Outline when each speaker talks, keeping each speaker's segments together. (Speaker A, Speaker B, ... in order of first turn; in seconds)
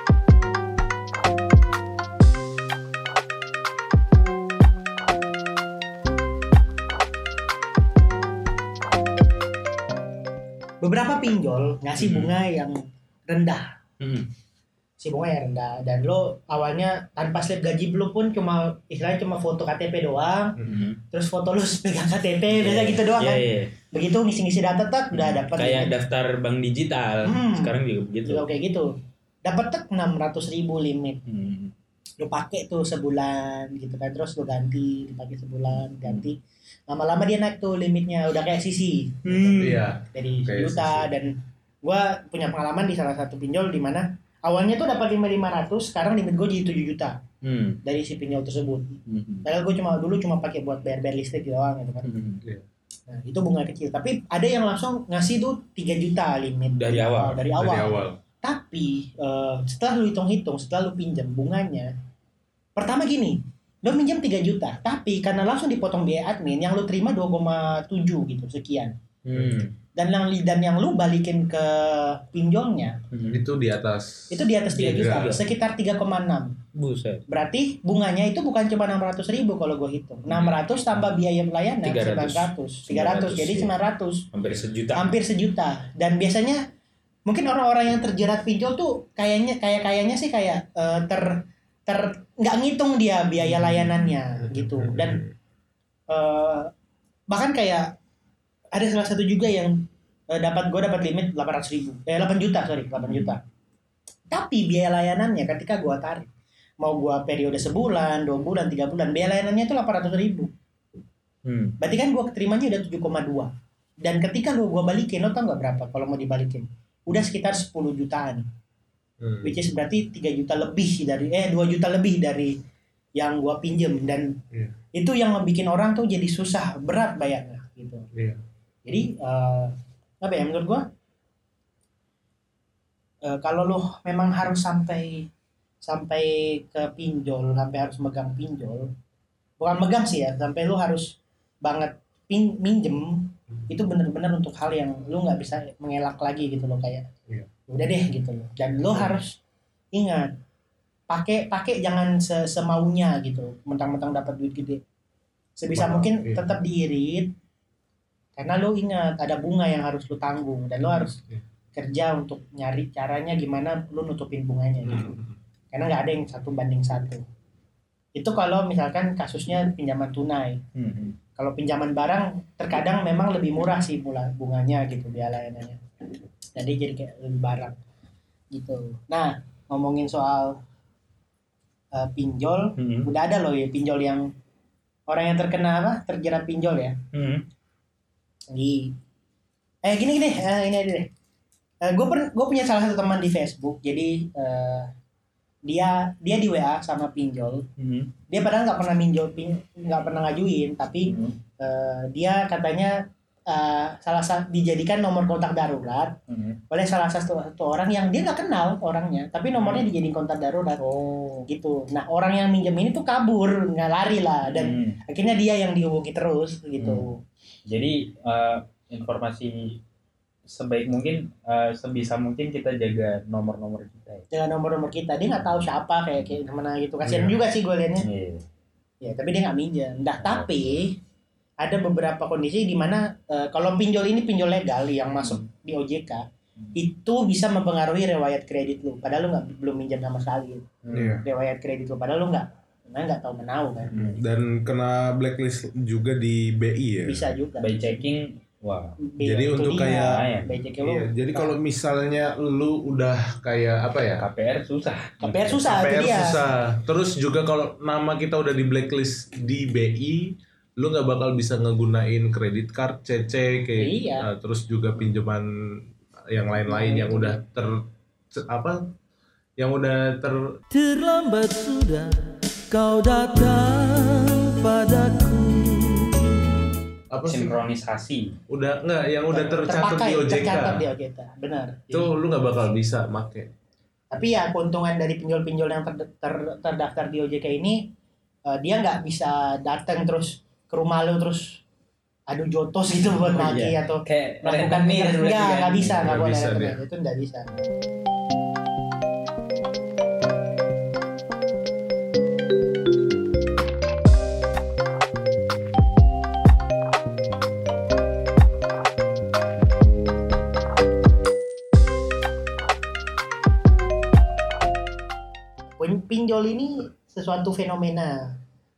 Speaker A: 10.8-13.8, 15.0-20.6, 21.1-25.9, 27.2-27.7, 28.2-28.9, 29.4-31.2, 32.2-36.4, 36.9-47.2, 47.8-52.1, 53.1-61.9, 62.8-69.0, 69.9-73.0, 74.3-76.6, 77.3-84.3, 84.9-86.7, 87.2-95.2, 96.1-96.7, 97.3-97.9, 98.7-103.4, 104.3-110.5, 111.8-113.5, 114.0-118.5, 119.4-122.6, 123.2-124.4, 124.9-128.1, 128.8-130.8, 133.2-135.3, 135.8-138.9, 139.6-147.1, 147.7-149.4, 149.9-150.3, 151.1-154.8, 155.6-157.3, 158.3-161.2, 161.7-165.2, 165.7-167.2, 168.2-170.6, 171.3-175.8, 176.6-177.8, 178.5-180.6, 181.9-184.3, 185.1-187.0, 188.5-188.9, 189.8-191.1, 191.8-194.9, 195.7-197.7, 198.3-206.2, 206.7-210.8, 211.5-217.2, 224.3-228.1, 229.0-230.9, 231.6-236.2, 236.7-240.7, 241.2-244.2, 247.1-248.1, 249.0-251.5, 255.2-256.4, 263.8-264.3, 266.7-267.4, 279.3-282.1, 284.1-287.9, 288.5-291.6, 292.3-297.6, 315.8-318.4
Speaker B: 12.0-12.3, 14.0-14.3, 20.6-21.0, 22.5-23.7, 25.1-28.5, 31.3-31.7, 39.2-39.8, 47.4-47.8, 49.1-49.4, 52.0-52.4, 56.8-57.4, 69.2-69.7, 73.1-73.4, 74.7-75.5, 76.7-77.2, 80.3-80.6, 81.8-83.7, 84.3-85.2, 93.5-94.1, 103.1-103.3, 111.4-111.8, 170.7-171.2, 182.8-183.1, 187.1-187.4, 197.8-198.1, 201.1-201.3, 206.3-206.6, 209.6-209.9, 210.8-211.5, 214.4-215.0, 216.8-217.1, 217.7-219.8, 220.5-224.2, 228.0-228.4, 230.2-230.7, 240.8-241.2, 243.9-244.2, 247.6-249.0, 249.7-250.6, 254.2-256.2, 277.2-278.4, 293.2-296.0
Speaker C: 39.6-41.1, 57.6-58.2, 69.3-69.6, 73.3-75.4, 94.4-95.3, 119.2-119.6, 128.1-128.4, 155.7-156.6, 161.0-161.4, 164.8-165.3, 227.1-227.3, 240.9-241.2, 244.2-247.3, 249.2-250.2, 250.8-254.2, 255.7-265.5, 266.3-268.9, 269.6-270.6, 277.1-277.6, 278.5-280.9, 281.9-283.5, 295.9-296.8
Speaker D: 270.7-276.5